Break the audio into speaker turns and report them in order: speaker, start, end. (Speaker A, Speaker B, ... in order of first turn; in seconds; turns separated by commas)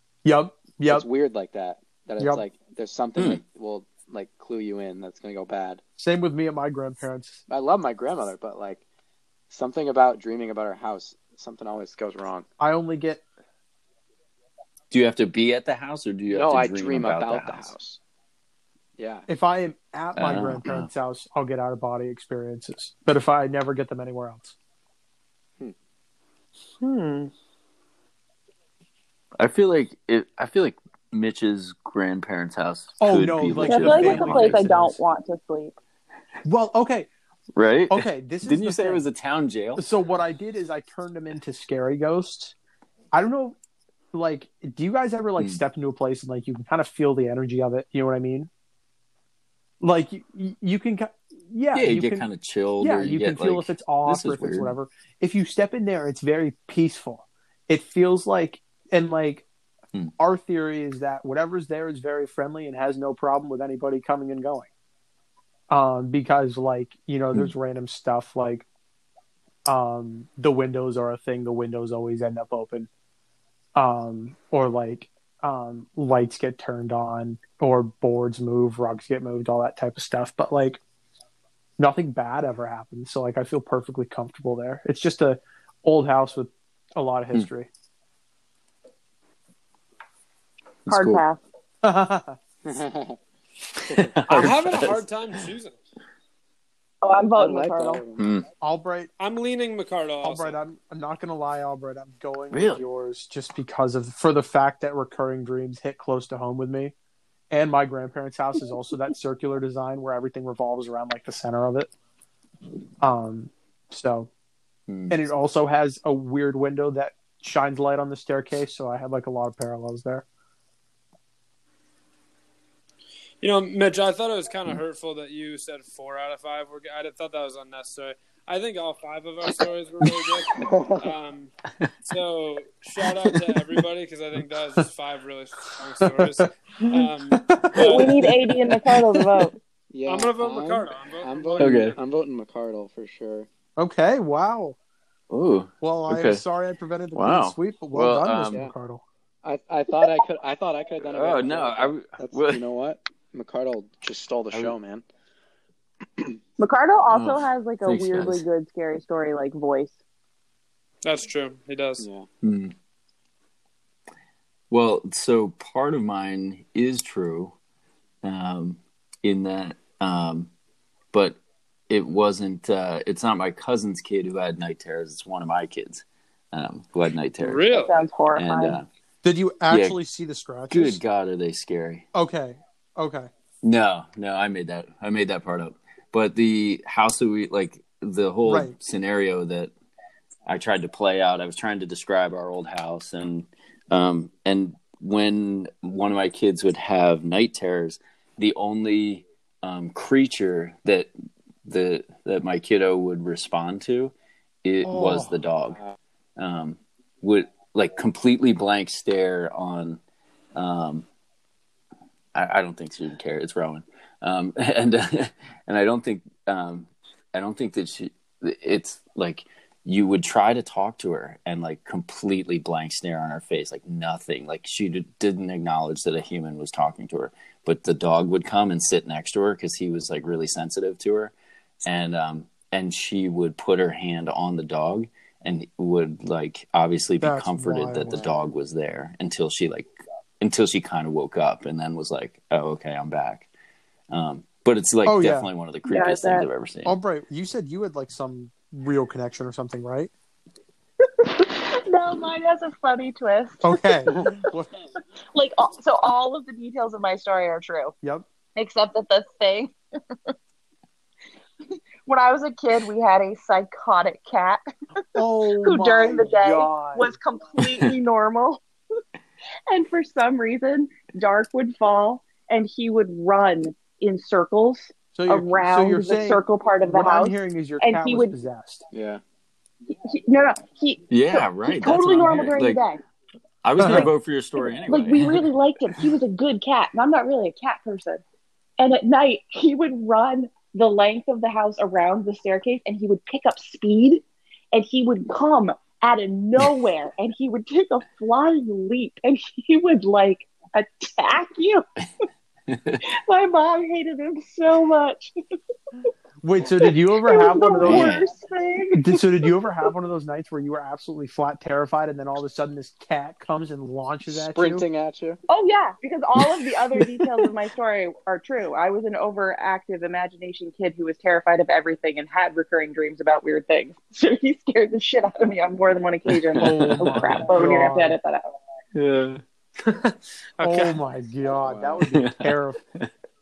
Speaker A: 0.2-1.1, Speaker B: 0.9-5.8, Speaker A: 6.0-7.4, Speaker B: 7.5-8.8, Speaker B: 9.5-12.4, Speaker A: 12.6-13.2, Speaker C: 14.9-17.7, Speaker B: 16.3-18.0, Speaker B: 19.0-19.3, Speaker A: 19.3-24.6, Speaker C: 20.1-20.9, Speaker C: 29.4-34.7, Speaker A: 33.0-35.0, Speaker D: 33.6-35.7, Speaker A: 36.4-37.1, Speaker C: 37.5-39.8, Speaker A: 37.9-39.0, Speaker A: 39.8-42.5, Speaker A: 43.1-43.5, Speaker A: 44.1-48.5, Speaker A: 49.8-52.2, Speaker C: 51.7-54.7, Speaker A: 52.8-59.4, Speaker A: 60.2-64.7, Speaker A: 65.7-68.7, Speaker A: 69.7-72.9, Speaker A: 73.8-80.8, Speaker A: 81.8-87.7, Speaker C: 90.8-91.2, Speaker D: 90.9-91.4, Speaker A: 91.8-92.4, Speaker B: 92.6-93.2, Speaker C: 93.8-95.0, Speaker E: 94.3-95.8, Speaker D: 97.0-98.0, Speaker B: 97.3-98.2, Speaker C: 98.2-98.5, Speaker A: 98.6-99.1, Speaker E: 99.2-100.6, Speaker A: 100.2-106.9, Speaker C: 102.5-102.8, Speaker A: 107.5-111.9, Speaker A: 113.0-114.3, Speaker C: 114.9-115.2, Speaker A: 115.1-120.2, Speaker E: 123.4-131.5, Speaker B: 130.5-131.1, Speaker E: 132.1-138.1, Speaker A: 136.0-136.4, Speaker A: 137.4-139.0, Speaker D: 137.8-139.5, Speaker B: 139.9-143.5, Speaker E: 140.1-142.0, Speaker C: 141.6-141.9, Speaker A: 143.8-144.8, Speaker C: 145.3-146.4, Speaker A: 145.8-149.0, Speaker C: 147.1-148.6, Speaker B: 149.4-155.0, Speaker C: 151.0-152.6, Speaker D: 156.6-160.0, Speaker C: 157.1-158.4, Speaker E: 161.0-162.1, Speaker B: 162.0-162.2, Speaker C: 162.4-162.7, Speaker C: 164.7-167.6, Speaker C: 168.2-170.5, Speaker C: 171.1-171.4, Speaker C: 171.9-177.6, Speaker E: 177.4-177.9, Speaker D: 177.7-178.8, Speaker C: 178.3-178.8, Speaker A: 179.2-181.0, Speaker C: 179.7-180.0, Speaker C: 180.7-182.1, Speaker A: 182.1-183.3, Speaker C: 183.6-189.7, Speaker A: 188.4-188.8, Speaker C: 190.4-201.1, Speaker C: 201.6-205.8, Speaker A: 204.8-205.4, Speaker C: 206.4-210.0, Speaker C: 210.5-211.1, Speaker C: 212.3-231.3, Speaker C: 231.8-239.9, Speaker A: 237.2-238.3, Speaker C: 240.4-243.5, Speaker C: 244.1-246.9, Speaker A: 245.0-245.5, Speaker D: 245.9-246.4, Speaker A: 246.8-250.1, Speaker D: 251.2-254.1, Speaker A: 253.6-254.7, Speaker D: 255.3-257.9, Speaker D: 258.6-259.7, Speaker D: 262.1-264.6, Speaker A: 265.1-267.1, Speaker D: 265.6-268.6, Speaker C: 267.6-267.9, Speaker D: 269.7-278.3, Speaker A: 275.1-278.8, Speaker B: 278.9-279.2, Speaker D: 279.9-283.0, Speaker C: 281.1-282.8, Speaker C: 283.6-285.5, Speaker A: 283.8-284.1, Speaker D: 283.8-284.1, Speaker D: 284.9-288.2, Speaker D: 288.8-301.8, Speaker C: 302.7-303.0, Speaker D: 303.2-305.3, Speaker A: 306.4-308.2, Speaker D: 307.1-309.6, Speaker C: 307.8-308.2, Speaker A: 308.9-314.8, Speaker B: 314.3-315.4, Speaker D: 315.5-328.4, Speaker C: 316.5-317.0, Speaker C: 326.3-327.4, Speaker A: 326.6-328.1, Speaker C: 328.9-329.4, Speaker E: 329.8-331.0, Speaker A: 330.6-332.8, Speaker B: 331.5-332.0, Speaker C: 332.1-333.1